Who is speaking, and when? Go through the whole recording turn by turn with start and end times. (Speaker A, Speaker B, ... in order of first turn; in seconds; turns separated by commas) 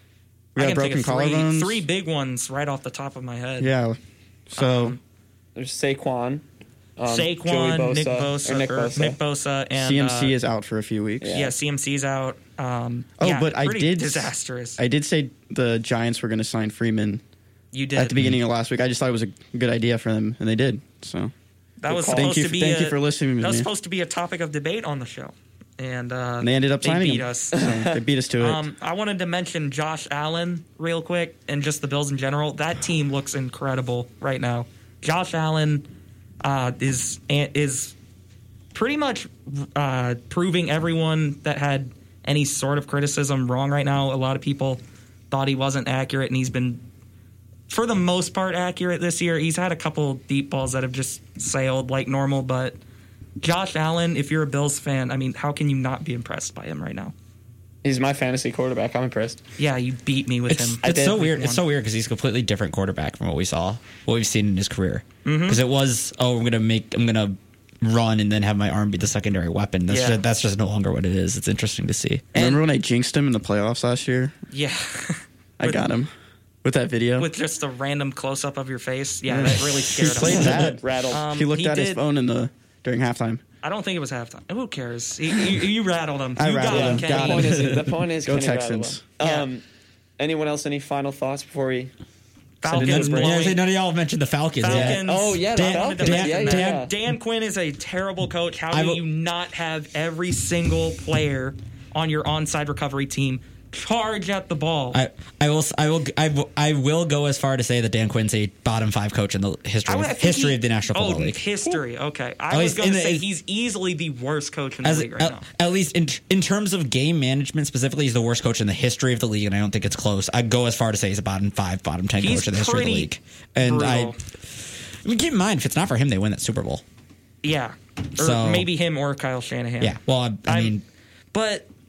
Speaker A: 0.5-1.8, Speaker B: 0.6-3.7, Speaker A: 3.6-4.0, Speaker A: 4.5-5.0, Speaker B: 4.5-5.0, Speaker C: 5.5-6.4, Speaker C: 7.0-9.2, Speaker B: 7.1-10.4, Speaker A: 9.8-11.4, Speaker C: 11.2-11.5, Speaker B: 11.3-14.8, Speaker A: 13.2-17.2, Speaker B: 17.7-18.3, Speaker A: 17.9-21.3, Speaker B: 21.8-27.6, Speaker C: 21.9-22.4, Speaker A: 22.1-23.7, Speaker A: 26.4-28.6, Speaker C: 27.6-27.8, Speaker B: 28.4-35.9, Speaker B: 36.4-37.9, Speaker B: 38.7-46.8, Speaker B: 47.7-52.8, Speaker B: 53.4-57.1, Speaker C: 57.8-59.4, Speaker B: 59.6-61.6, Speaker D: 60.5-72.2, Speaker C: 60.8-61.2, Speaker B: 65.2-65.6, Speaker B: 69.9-70.2, Speaker B: 72.3-72.6, Speaker A: 72.3-74.3, Speaker B: 74.5-75.8, Speaker A: 75.6-76.1, Speaker A: 76.6-77.3, Speaker B: 77.2-82.0, Speaker A: 79.3-83.4, Speaker C: 80.2-81.2, Speaker B: 83.6-87.7, Speaker A: 86.4-89.0, Speaker C: 86.7-89.6, Speaker B: 89.2-89.5, Speaker C: 90.2-91.9, Speaker B: 92.6-93.6, Speaker C: 92.6-93.4, Speaker D: 92.7-96.9, Speaker B: 94.6-105.0, Speaker C: 94.6-96.9, Speaker D: 98.7-99.0, Speaker D: 104.9-111.8, Speaker B: 109.9-115.4, Speaker D: 112.5-113.3, Speaker D: 114.8-126.8, Speaker B: 122.2-124.2, Speaker B: 127.4-130.8, Speaker D: 128.2-128.7, Speaker D: 129.8-130.8, Speaker B: 131.3-131.7